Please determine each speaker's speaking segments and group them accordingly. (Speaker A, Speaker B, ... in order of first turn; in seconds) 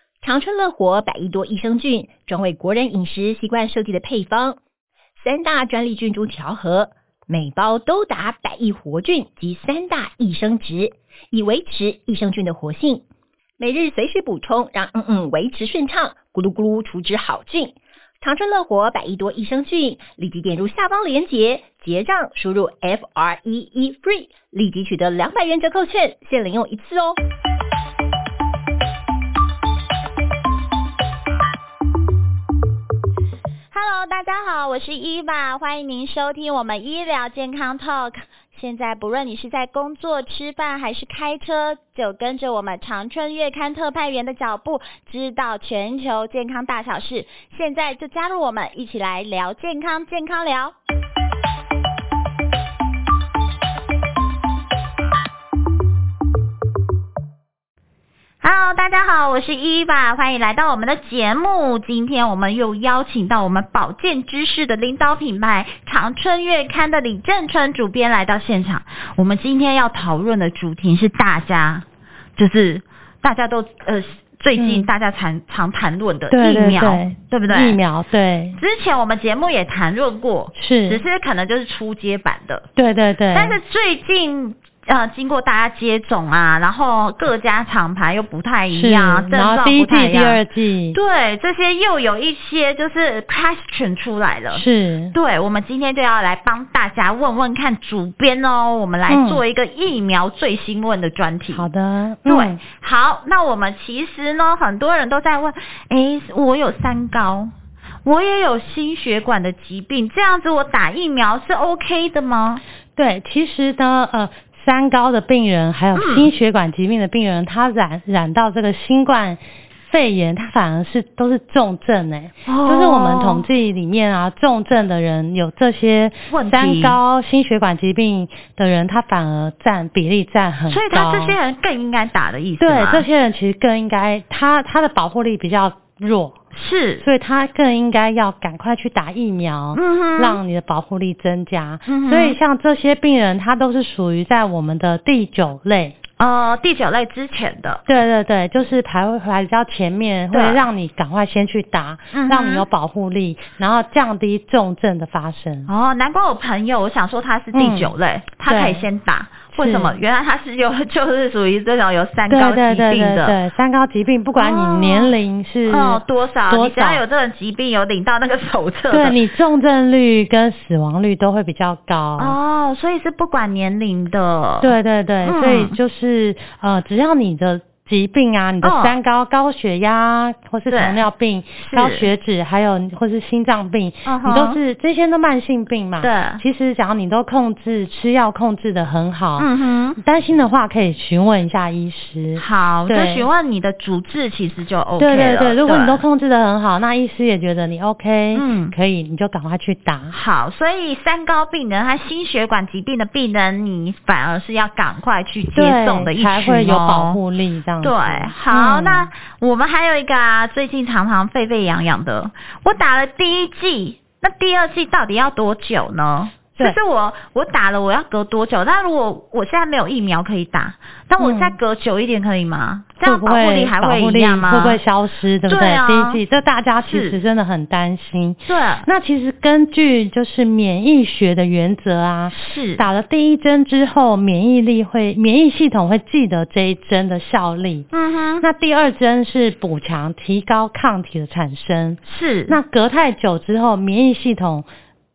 Speaker A: 0.2-4.6, 5.2-13.1, 13.6-27.2
Speaker B: 33.7-50.7, 58.4-77.8, 78.6-82.7, 83.3-90.4, 90.9-101.7, 102.3-107.5, 108.0-112.6, 115.9-116.3, 122.5-123.5, 126.3-127.0, 130.7-133.1, 136.5-137.1, 139.7-140.4, 141.9-142.4, 146.2-147.8, 150.3-150.6, 152.1-152.7, 155.7-163.4, 164.4-165.1, 165.7-169.2, 172.2-175.8, 178.6-178.9, 180.7-181.0, 181.6-182.1, 184.1-184.6, 186.0-186.4, 189.4-190.0, 192.4-196.0, 198.3-198.7, 200.1-207.2, 207.8-224.8, 225.5-226.2, 226.9-227.2, 228.5-228.9, 232.3-232.8, 237.9-238.4, 242.1-242.6
Speaker C: 74.5-74.9, 76.3-78.6, 80.5-81.0, 82.8-83.6, 88.7-91.0, 94.5-95.1, 99.1-99.4, 101.5-102.6, 113.0-131.4, 132.6-136.4, 137.0-145.9, 147.9-155.7, 157.5-157.9, 158.5-158.8, 159.5-159.9, 162.3-167.0, 168.9-172.4, 174.6-189.5, 190.0-193.3, 195.0-200.1, 205.5-209.1, 221.2-221.6, 223.0-237.9, 238.4-244.7